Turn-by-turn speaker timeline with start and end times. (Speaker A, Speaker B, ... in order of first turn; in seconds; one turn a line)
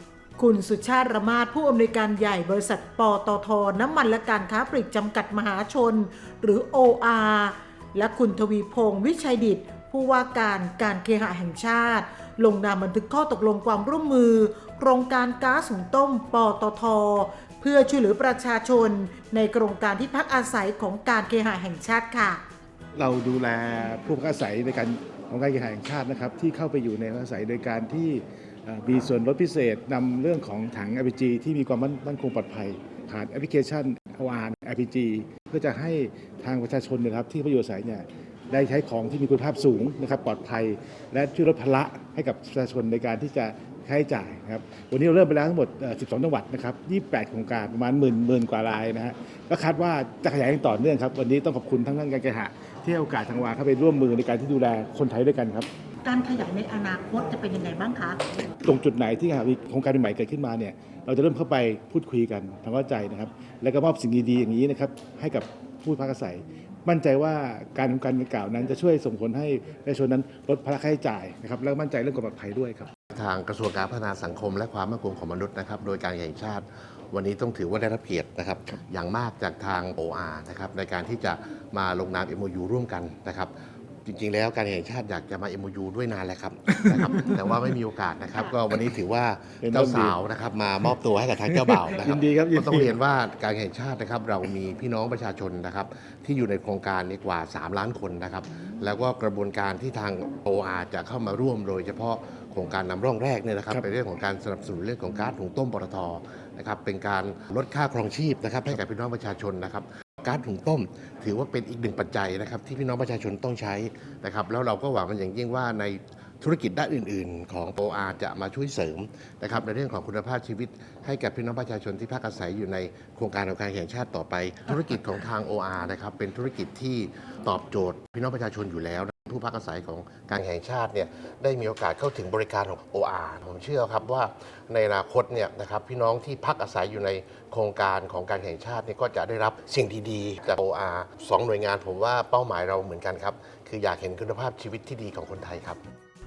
Speaker A: 0.4-22.4
Speaker B: 22.9-55.7
Speaker A: 56.0-58.2
Speaker B: 58.6-72.9
Speaker C: 73.1-83.5
Speaker C: 84.0-145.8
Speaker B: 86.7-87.6
Speaker B: 89.6-90.2
Speaker B: 91.4-93.0